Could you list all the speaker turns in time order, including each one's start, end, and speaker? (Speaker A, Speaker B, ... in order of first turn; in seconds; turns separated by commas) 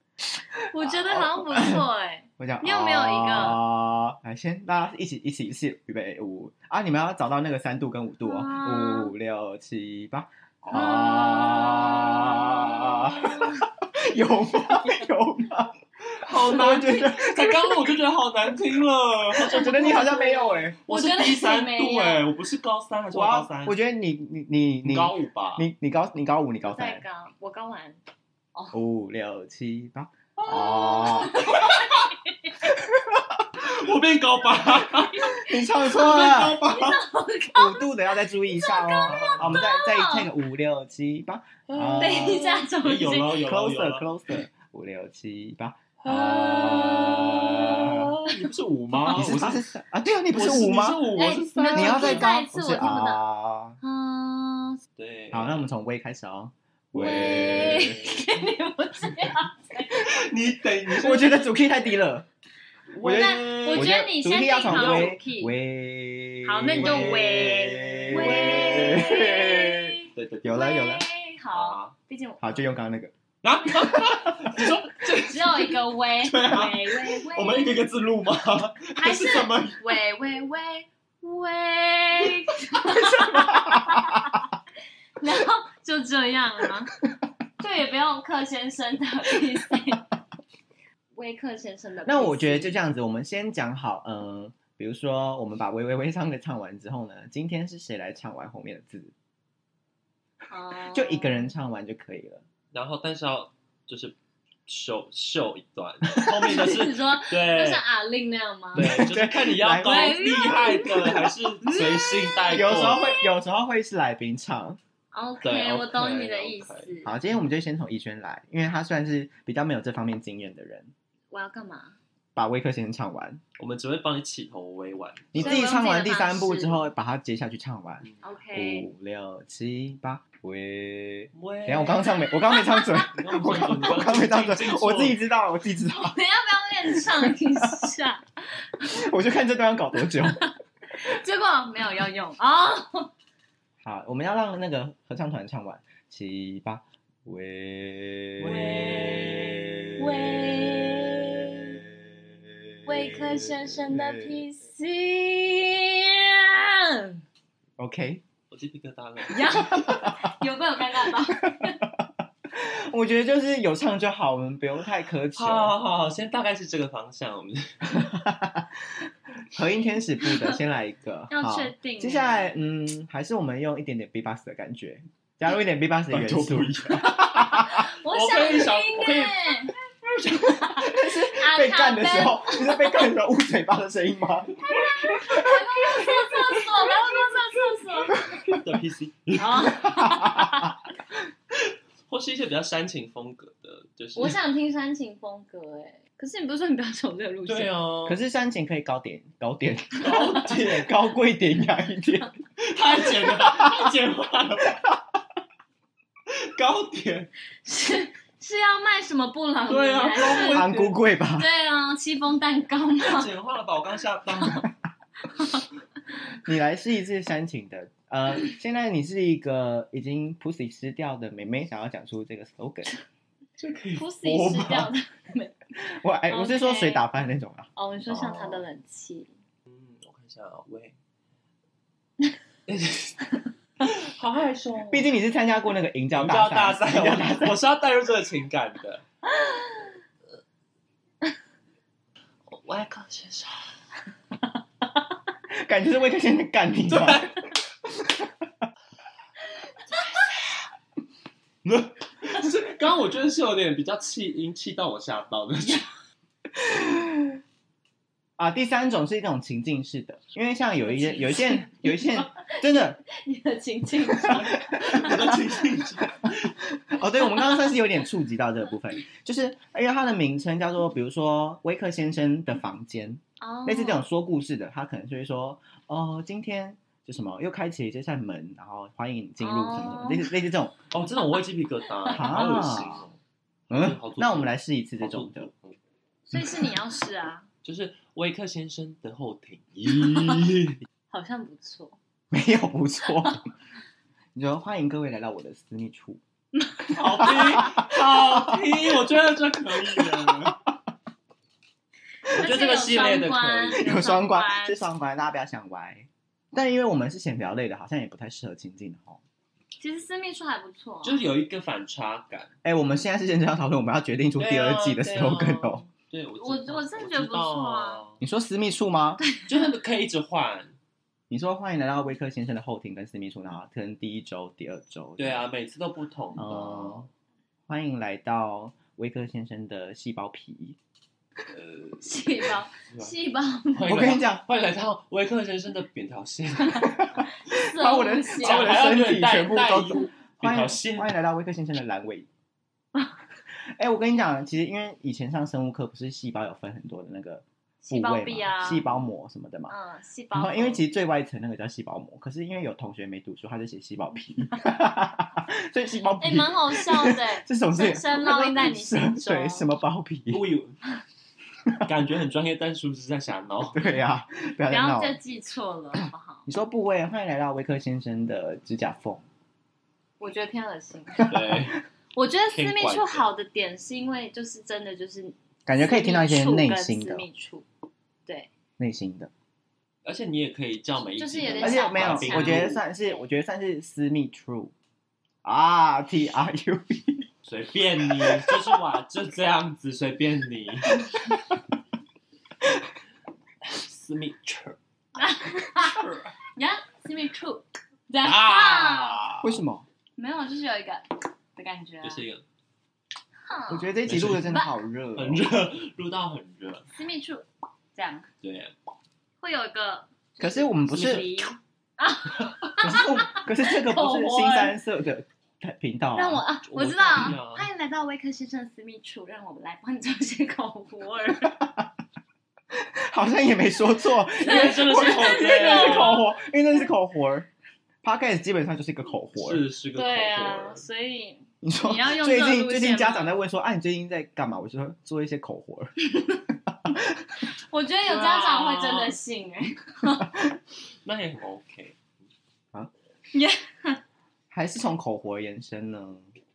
Speaker A: 0.7-3.6, Speaker B: 0.8-1.8, Speaker B: 2.4-17.8, Speaker A: 8.2-9.1, Speaker A: 10.7-13.7, Speaker C: 16.1-20.2, Speaker A: 16.4-17.0, Speaker B: 19.3-20.8, Speaker A: 19.4-22.2, Speaker C: 20.9-23.8, Speaker B: 23.1-27.0, Speaker C: 24.8-25.6, Speaker A: 26.6-28.0, Speaker B: 28.7-31.5, Speaker A: 30.5-32.8, Speaker C: 30.5-32.1, Speaker B: 32.6-33.5, Speaker C: 33.6-35.2, Speaker A: 34.7-37.9, Speaker B: 35.3-37.0, Speaker C: 36.1-36.4, Speaker B: 37.5-42.6, Speaker A: 38.5-40.3, Speaker C: 39.0-39.6, Speaker C: 41.7-44.1, Speaker A: 42.0-43.4, Speaker B: 43.4-48.1, Speaker C: 46.0-49.7, Speaker B: 49.0-51.0, Speaker C: 50.3-52.3, Speaker A: 51.1-53.2, Speaker B: 51.7-53.8, Speaker A: 53.8-54.8, Speaker C: 55.0-55.7, Speaker B: 55.3-58.1, Speaker A: 56.9-60.3, Speaker C: 57.5-58.1, Speaker C: 60.0-61.5, Speaker B: 60.9-62.3, Speaker C: 62.9-64.1, Speaker B: 63.0-71.0, Speaker A: 63.1-65.6, Speaker C: 64.6-65.2, Speaker A: 66.4-72.4, Speaker C: 66.7-69.3, Speaker C: 70.2-70.7, Speaker C: 71.5-71.9, Speaker B: 72.4-73.1, Speaker C: 73.4-80.0, Speaker B: 73.8-74.6, Speaker A: 75.2-77.8, Speaker A: 79.0-84.5, Speaker B: 82.9-84.4, Speaker A: 85.2-86.9, Speaker A: 87.6-90.0, Speaker A: 91.1-92.8, Speaker B: 92.1-99.1, Speaker A: 100.5-101.5, Speaker B: 100.8-102.4, Speaker C: 102.7-104.2, Speaker C: 104.7-107.8, Speaker B: 106.1-106.7, Speaker A: 106.4-109.1, Speaker B: 108.8-111.3, Speaker C: 108.8-113.1, Speaker A: 109.8-112.5, Speaker B: 112.5-114.8, Speaker A: 115.1-117.1, Speaker C: 115.4-117.0, Speaker B: 117.0-120.9, Speaker A: 121.3-122.0, Speaker B: 122.4-123.4, Speaker C: 123.6-125.6, Speaker B: 125.3-136.2, Speaker A: 125.3-126.9, Speaker A: 128.2-128.9, Speaker C: 131.3-132.2, Speaker A: 132.3-133.1, Speaker C: 133.1-135.2, Speaker A: 135.8-138.3, Speaker B: 136.9-137.9, Speaker B: 138.9-140.5, Speaker A: 140.1-143.1, Speaker B: 143.8-148.8, Speaker C: 148.4-150.0, Speaker A: 148.5-151.8, Speaker B: 149.7-150.8, Speaker B: 152.0-152.3, Speaker A: 152.9-157.2, Speaker B: 152.9-154.4, Speaker B: 157.8-158.2, Speaker C: 158.5-159.6, Speaker A: 159.3-161.8, Speaker B: 159.3-160.4, Speaker B: 161.1-165.7, Speaker C: 165.3-168.0, Speaker B: 167.9-168.9, Speaker B: 169.4-177.8, Speaker A: 170.2-170.6, Speaker A: 171.3-172.6, Speaker C: 176.1-179.5, Speaker A: 177.1-179.7, Speaker C: 180.1-180.7, Speaker A: 180.3-183.1, Speaker B: 180.6-186.4, Speaker A: 184.6-188.2, Speaker B: 188.1-188.6, Speaker C: 188.2-189.8, Speaker A: 189.4-190.8, Speaker B: 189.8-190.7, Speaker C: 192.1-194.4, Speaker A: 194.2-197.8, Speaker C: 197.5-198.2, Speaker B: 198.1-202.3, Speaker C: 200.0-200.9, Speaker C: 202.6-204.8, Speaker B: 203.2-203.9, Speaker C: 206.3-207.3, Speaker A: 207.7-210.7, Speaker C: 209.7-211.0, Speaker B: 210.3-211.5, Speaker A: 211.4-213.3, Speaker C: 213.0-214.7, Speaker B: 216.4-222.9, Speaker C: 223.6-224.9, Speaker A: 224.0-225.6, Speaker B: 225.8-227.7, Speaker A: 226.3-227.1, Speaker A: 227.8-229.3, Speaker C: 228.1-228.7, Speaker C: 229.7-230.9, Speaker C: 232.7-233.3, Speaker C: 233.8-235.1, Speaker B: 234.9-237.6, Speaker C: 236.1-239.0, Speaker A: 239.4-239.9, Speaker C: 242.5-243.7, Speaker B: 245.5-247.3, Speaker C: 246.9-247.4, Speaker B: 247.9-248.3, Speaker C: 251.7-255.8, Speaker B: 256.6-257.4, Speaker B: 258.4-263.0, Speaker A: 260.8-265.4, Speaker B: 264.1-265.4, Speaker C: 264.8-266.6, Speaker B: 266.2-280.8, Speaker A: 267.4-267.7, Speaker A: 273.4-274.1, Speaker A: 279.4-280.3, Speaker C: 280.9-283.2, Speaker B: 282.1-283.0, Speaker C: 283.7-285.8, Speaker B: 283.7-285.5, Speaker A: 286.3-287.5, Speaker C: 287.6-290.8, Speaker A: 290.1-290.4, Speaker A: 291.1-292.0, Speaker B: 292.3-293.4, Speaker A: 293.1-293.4, Speaker B: 294.4-296.2, Speaker A: 296.6-297.3, Speaker C: 296.9-300.6, Speaker B: 297.1-299.0, Speaker B: 299.9-300.6, Speaker C: 302.3-303.8, Speaker A: 302.3-304.9, Speaker B: 303.7-309.2, Speaker A: 309.8-311.3, Speaker C: 311.0-312.5, Speaker B: 312.6-315.9, Speaker C: 314.4-318.2, Speaker A: 316.4-318.0, Speaker B: 318.2-319.2, Speaker C: 319.4-320.8, Speaker B: 321.3-325.4, Speaker C: 325.2-327.0, Speaker B: 326.4-327.1, Speaker B: 327.7-330.8, Speaker C: 331.5-332.1, Speaker A: 332.0-334.1, Speaker C: 332.8-333.1, Speaker C: 333.7-337.1, Speaker B: 333.9-334.4, Speaker A: 336.7-338.8, Speaker B: 337.0-342.3, Speaker C: 338.4-341.2, Speaker B: 343.5-349.7, Speaker A: 347.8-348.9, Speaker A: 349.7-350.9, Speaker B: 350.3-360.5, Speaker A: 356.2-359.7, Speaker C: 360.3-360.8, Speaker C: 361.8-363.9, Speaker B: 363.7-365.2, Speaker A: 364.7-366.5, Speaker B: 366.5-369.2, Speaker A: 370.2-371.3, Speaker B: 371.2-371.6, Speaker C: 371.2-371.8, Speaker A: 372.1-377.7, Speaker C: 372.5-373.2, Speaker B: 375.7-377.2, Speaker A: 378.3-378.5, Speaker B: 378.8-379.3, Speaker C: 380.0-382.8, Speaker A: 381.2-383.2, Speaker B: 381.6-384.7, Speaker B: 385.4-387.3, Speaker C: 387.5-391.1, Speaker B: 388.1-388.7, Speaker C: 393.6-394.8, Speaker A: 395.2-396.0, Speaker C: 395.8-396.3, Speaker A: 396.6-399.3, Speaker C: 398.2-399.5, Speaker B: 399.4-399.9, Speaker A: 400.2-402.2, Speaker C: 402.0-402.4, Speaker A: 403.5-404.7, Speaker B: 403.7-405.7, Speaker C: 404.1-404.6, Speaker C: 405.2-406.9, Speaker A: 406.9-408.3, Speaker C: 408.4-408.8, Speaker A: 409.4-414.8, Speaker B: 410.4-411.3, Speaker B: 412.8-416.4, Speaker A: 416.1-421.7, Speaker C: 416.6-417.7, Speaker B: 421.4-421.9, Speaker B: 422.7-427.5, Speaker A: 424.4-426.9, Speaker C: 424.4-426.3, Speaker B: 428.0-429.6, Speaker C: 429.4-430.8, Speaker A: 429.9-433.4, Speaker B: 431.6-435.9, Speaker A: 436.1-436.4, Speaker B: 436.7-437.3, Speaker A: 437.7-440.4, Speaker C: 438.1-439.2, Speaker C: 441.1-442.1, Speaker A: 443.3-444.0, Speaker B: 444.5-446.3